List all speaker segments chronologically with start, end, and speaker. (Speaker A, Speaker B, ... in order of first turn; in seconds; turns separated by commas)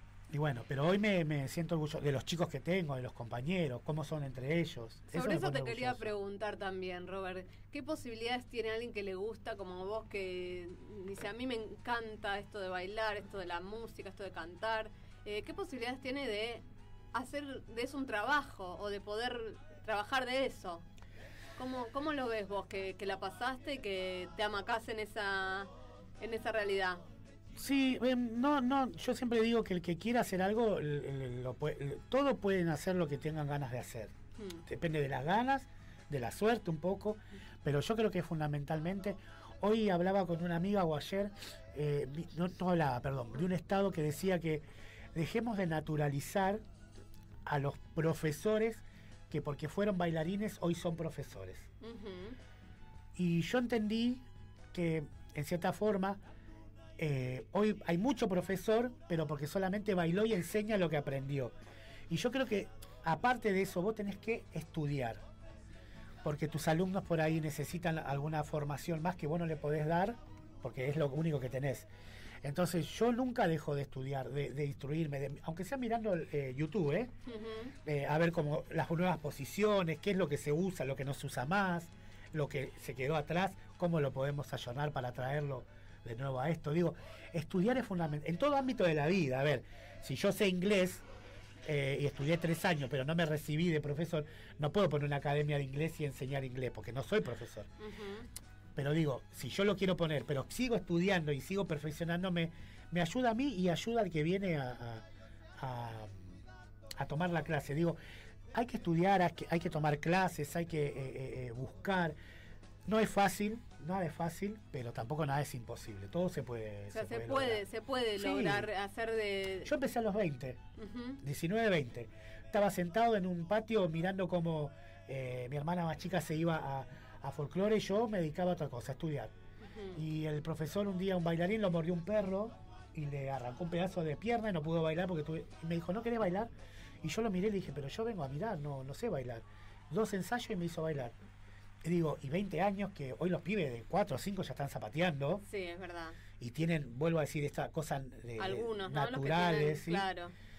Speaker A: 0.3-6.1, Speaker B: 5.1-20.9, Speaker B: 21.6-25.7, Speaker B: 26.2-27.0, Speaker A: 27.6-34.1, Speaker B: 34.4-34.6, Speaker A: 34.6-46.6, Speaker A: 47.5-51.7, Speaker B: 51.8-52.4, Speaker A: 53.1-56.2, Speaker A: 57.0-61.5, Speaker A: 62.1-65.2, Speaker A: 66.2-71.9, Speaker A: 72.4-77.1, Speaker B: 77.3-77.7, Speaker A: 77.8-91.0, Speaker A: 91.7-97.7, Speaker B: 97.8-98.3, Speaker A: 98.8-105.0, Speaker A: 105.6-106.4, Speaker A: 107.0-108.0, Speaker A: 108.5-112.2, Speaker A: 112.9-117.6, Speaker B: 116.9-119.7, Speaker A: 118.2-118.7, Speaker A: 119.7-120.6, Speaker B: 120.8-121.2, Speaker A: 121.2-129.3, Speaker B: 129.6-130.0, Speaker A: 129.9-136.5, Speaker A: 137.0-141.2, Speaker A: 141.8-145.4, Speaker B: 145.5-146.2, Speaker A: 146.4-150.1, Speaker B: 148.4-150.3